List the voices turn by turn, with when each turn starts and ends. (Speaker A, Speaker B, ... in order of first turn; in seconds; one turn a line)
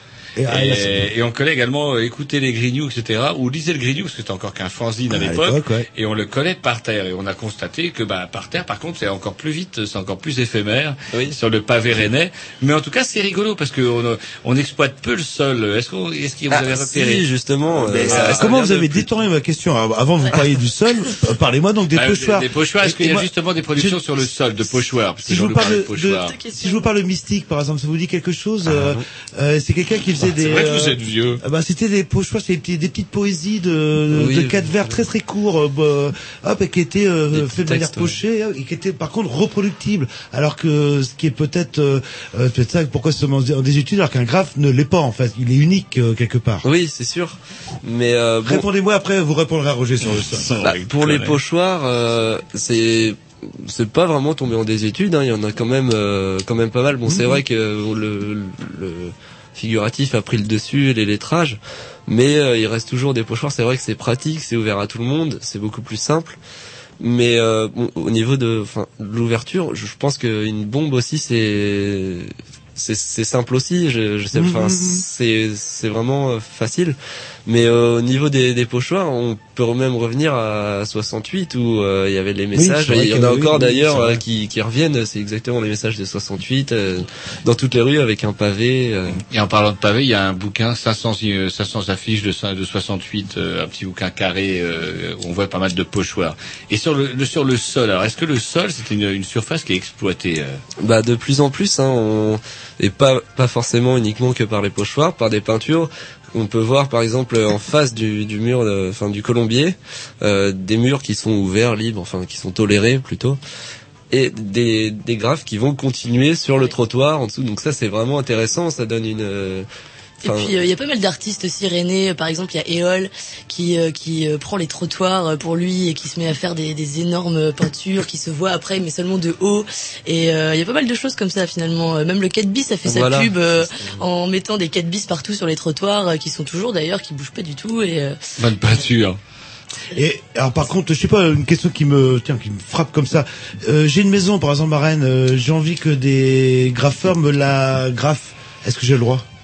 Speaker A: 0.4-1.1
Speaker B: 0.5-17.3
Speaker A: 5.1-5.9
Speaker C: 16.5-19.0
Speaker A: 17.8-24.0
Speaker B: 17.8-18.9
Speaker B: 21.9-26.4
Speaker A: 25.2-46.6
Speaker D: 26.3-26.8
Speaker C: 28.6-29.0
Speaker B: 30.2-31.4
Speaker C: 34.1-35.0
Speaker C: 37.3-38.1
Speaker C: 46.6-48.6
Speaker A: 48.4-50.5
Speaker B: 50.0-51.4
Speaker C: 50.6-66.4
Speaker A: 57.1-57.4
Speaker C: 67.0-89.2
Speaker A: 74.3-75.0
Speaker A: 82.5-84.2
Speaker B: 89.3-100.6
Speaker C: 100.8-113.4
Speaker C: 114.1-119.7
Speaker C: 120.2-120.5
Speaker D: 120.2-138.2
Speaker C: 132.8-133.9
Speaker B: 138.4-139.2
Speaker A: 139.9-149.2